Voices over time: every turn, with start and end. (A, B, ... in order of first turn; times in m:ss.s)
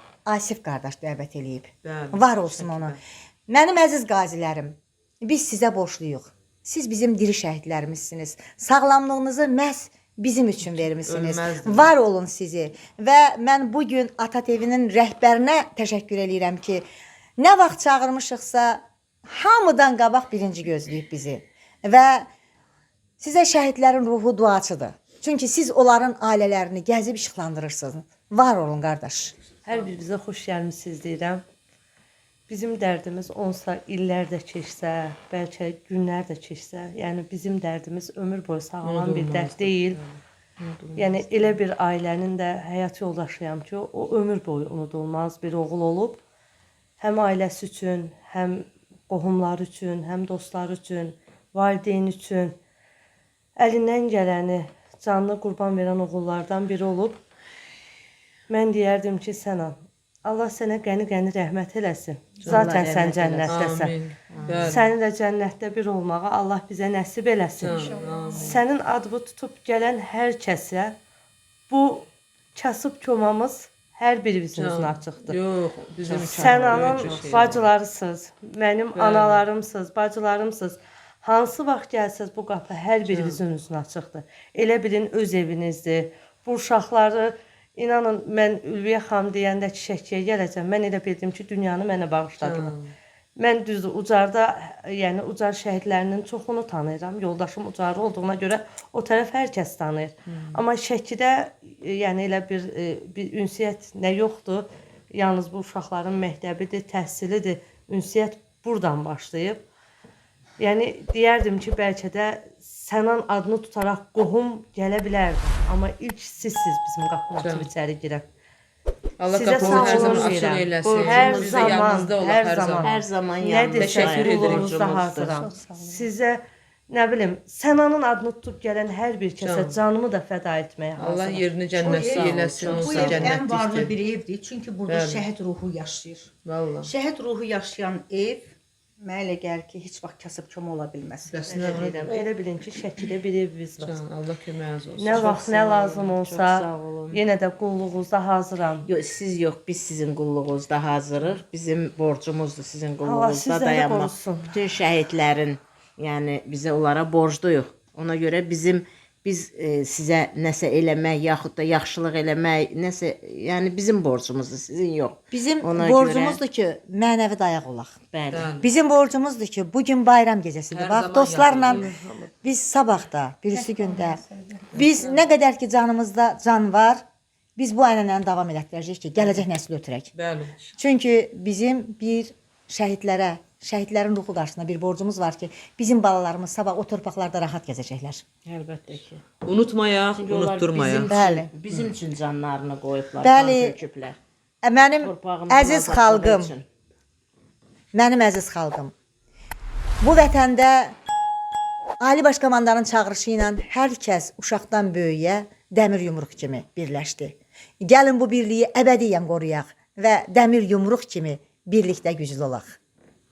0:00.2-0:16.8 A
0:01.8-0:03.0 B
0:11.0-0:11.9 B
0:17.4-0:22.3 A
0:23.2-0:29.3 A
0:29.6-0:31.4 C
0:32.5-0:40.0 C
0:38.8-0:41.6 B
0:40.9-0:46.2 C
0:47.0-0:52.6 C
0:53.6-0:57.2 C
0:58.5-1:03.9 C
1:02.4-1:02.7 B
1:02.4-1:03.5 D
1:03.5-1:04.8 B
1:04.3-1:04.6 D
1:04.6-1:11.0 C
1:07.6-1:08.6 B
1:11.7-1:15.4 C
1:14.5-1:17.6 B
1:16.0-1:17.6 D
1:16.1-1:32.8 C
1:18.9-1:19.4 B
1:23.1-1:23.4 B
1:32.4-1:32.9 B
1:33.4-1:49.6 C
1:40.3-1:40.6 B
1:50.6-1:58.3 C
1:57.4-1:57.7 B
1:59.2-2:03.0 B
1:59.3-2:12.4 C
1:59.6-2:00.3 D
2:00.8-2:01.8 D
2:02.8-2:05.4 D
2:03.8-2:04.8 B
2:09.4-2:09.8 B
2:11.0-2:14.0 B
2:11.8-2:16.3 E
2:14.9-2:15.2 B
2:16.4-2:16.9 B
2:16.8-2:22.2 E
2:21.3-2:22.1 B
2:21.4-2:24.0 C
2:23.8-2:25.4 B
2:25.0-2:28.9 C
2:25.1-2:27.2 D
2:28.8-2:46.4 D
2:33.0-2:34.6 C
2:45.3-2:48.0 A
2:48.1-2:48.5 D
2:48.3-2:48.7 B
2:48.6-2:51.9 A
2:50.7-2:52.1 B
2:52.4-2:57.0 A
2:54.7-2:55.2 B
2:57.6-3:00.1 A
3:00.1-3:00.6 B
3:00.7-3:08.2 A
3:08.4-3:09.2 D
3:09.4-3:11.1 B
3:10.1-3:14.2 D
3:11.1-3:11.5 A
3:13.2-3:13.8 A
3:14.6-3:16.5 A
3:15.0-3:16.6 D
3:17.9-3:18.9 A
3:20.0-3:21.0 A
3:22.0-3:32.8 A